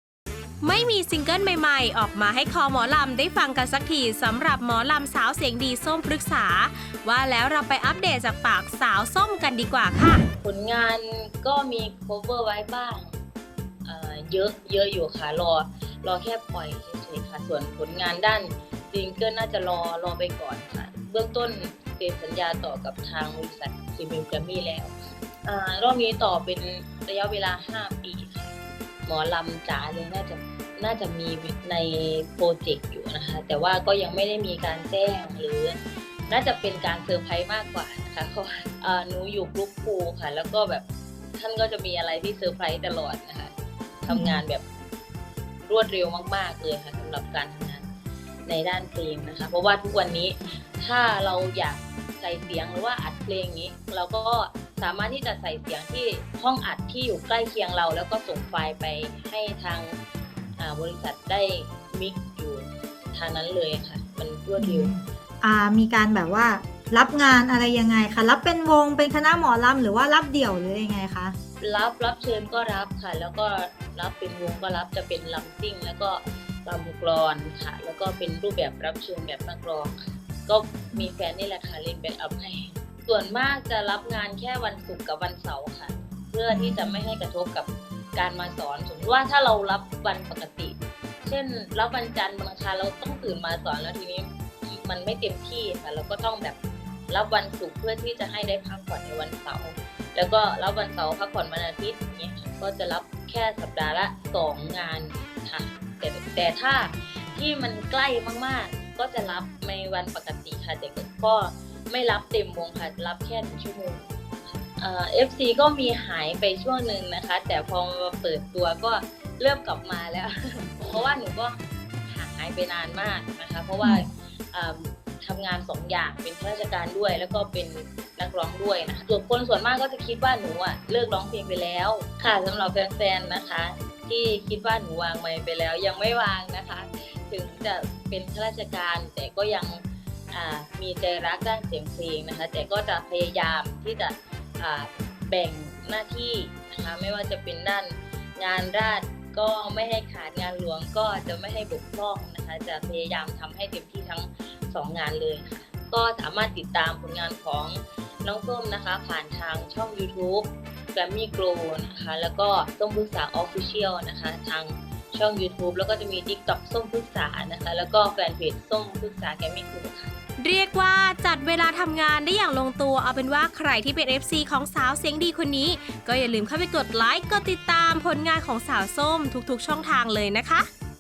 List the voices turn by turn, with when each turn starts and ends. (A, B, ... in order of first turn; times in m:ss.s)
0:00.6-0:10.2 A
0:10.4-0:13.1 B
0:13.8-0:35.8 B
0:36.3-0:44.6 B
0:44.1-0:44.4 C
0:45.6-0:47.9 B
0:48.5-1:00.0 B
1:00.6-1:04.9 B
1:04.6-1:11.4 C
1:11.6-1:36.6 B
1:26.5-1:27.0 C
1:37.1-1:54.1 B
1:54.6-2:50.1 B
2:03.8-2:04.1 C
2:50.4-3:00.7 A